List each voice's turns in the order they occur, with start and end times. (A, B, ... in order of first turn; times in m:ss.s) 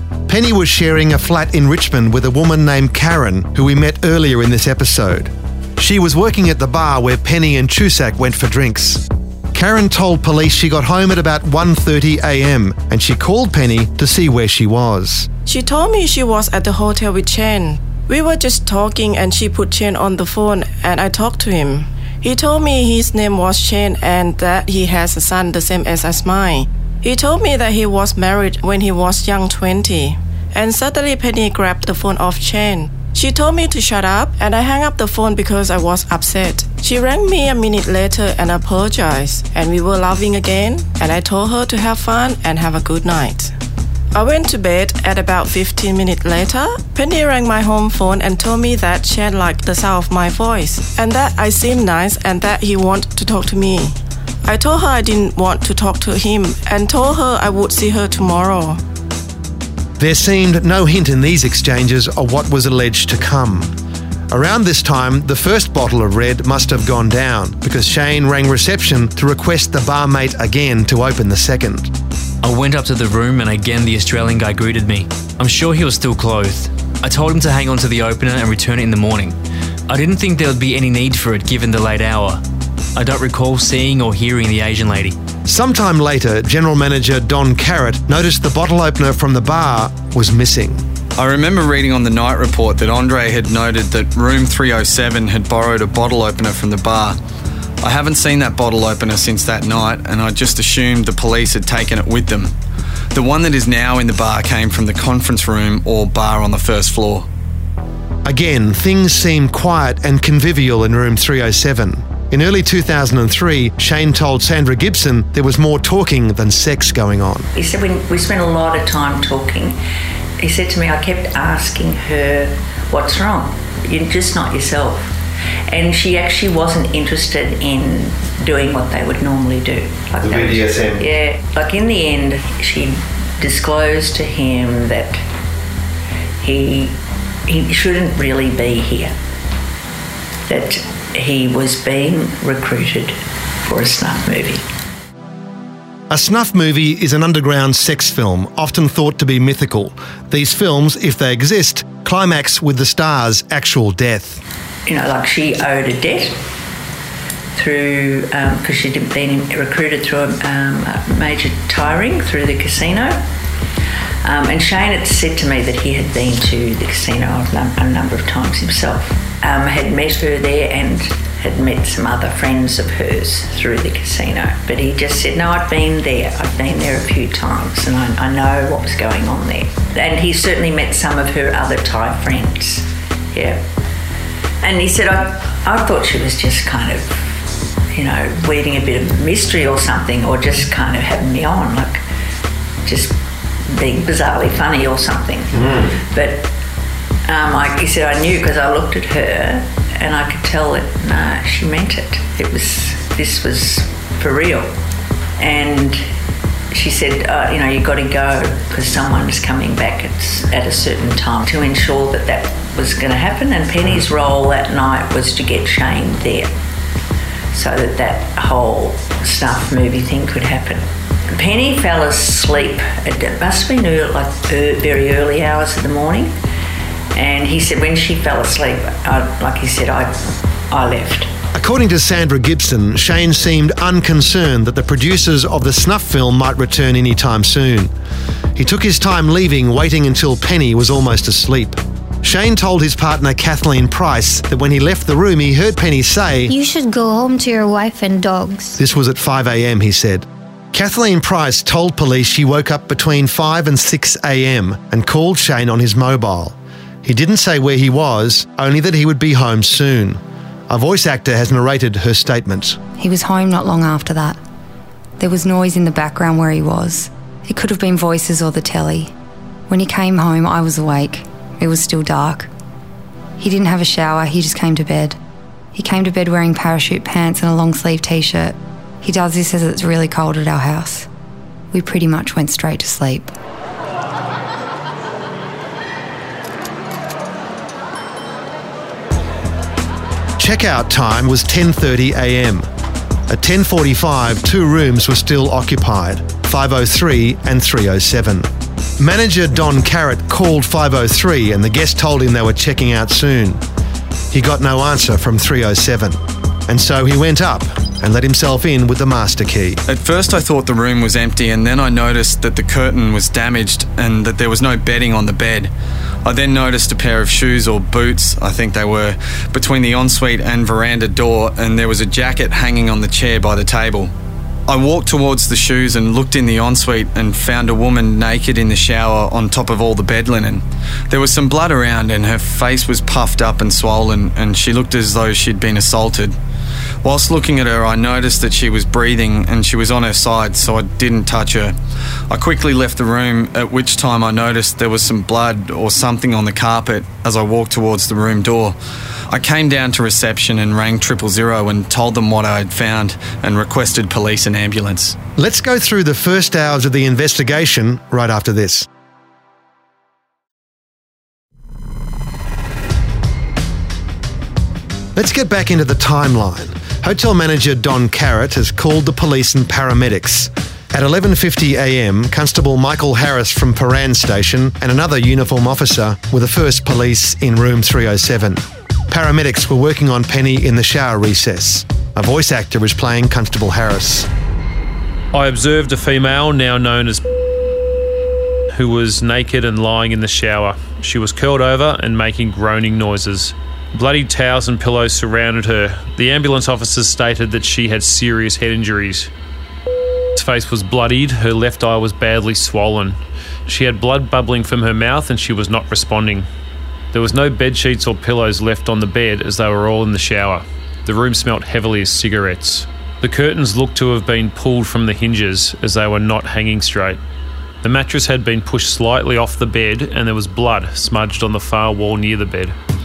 0:00.3-0:15.3 A
0:15.5-0:43.5 B
0:44.1-0:58.8 B
1:00.0-1:03.7 A
1:04.3-1:11.9 A
1:12.4-1:19.4 C
1:19.9-1:22.4 C
1:23.0-1:25.2 C
1:25.5-1:30.8 A
1:31.2-1:37.2 D
1:37.8-1:42.5 D
1:43.1-1:47.3 D
1:48.2-1:57.5 A
1:57.6-1:59.8 E
2:00.4-2:05.1 E
2:05.7-2:15.2 E
2:10.2-2:11.0 A
2:16.4-2:17.0 E
2:17.5-2:19.1 E
2:20.5-2:24.6 E
2:26.1-2:34.4 A
2:34.9-2:36.4 E
2:37.6-2:43.2 E
2:44.2-3:03.6 E
3:04.6-3:07.4 E
3:07.9-3:12.0 E
3:12.8-3:16.5 E
3:17.3-3:24.7 E
3:25.4-3:26.0 E
3:26.7-3:36.5 E
3:37.5-3:46.4 E
3:47.1-3:51.3 E
3:51.5-3:57.9 A
3:58.6-4:06.5 A
4:06.5-4:08.8 F
4:08.8-4:22.8 A
4:23.0-4:24.4 G
4:25.2-4:29.1 G
4:29.7-4:32.5 G
4:33.4-4:35.2 G
4:35.7-4:41.1 G
4:41.7-4:43.4 G
4:50.4-4:52.7 A
4:53.3-5:03.6 A
5:04.3-5:09.8 A
5:09.9-5:15.7 D
5:16.2-5:24.1 D
5:24.7-5:36.4 D
5:37.0-5:41.8 D
5:42.3-5:48.8 D
5:49.3-5:55.2 D
5:55.4-5:58.9 A
6:05.2-6:24.3 A
6:25.3-6:27.2 H
6:28.7-6:39.3 H
6:40.4-6:46.5 H
6:47.1-6:57.2 H
6:57.8-7:02.8 H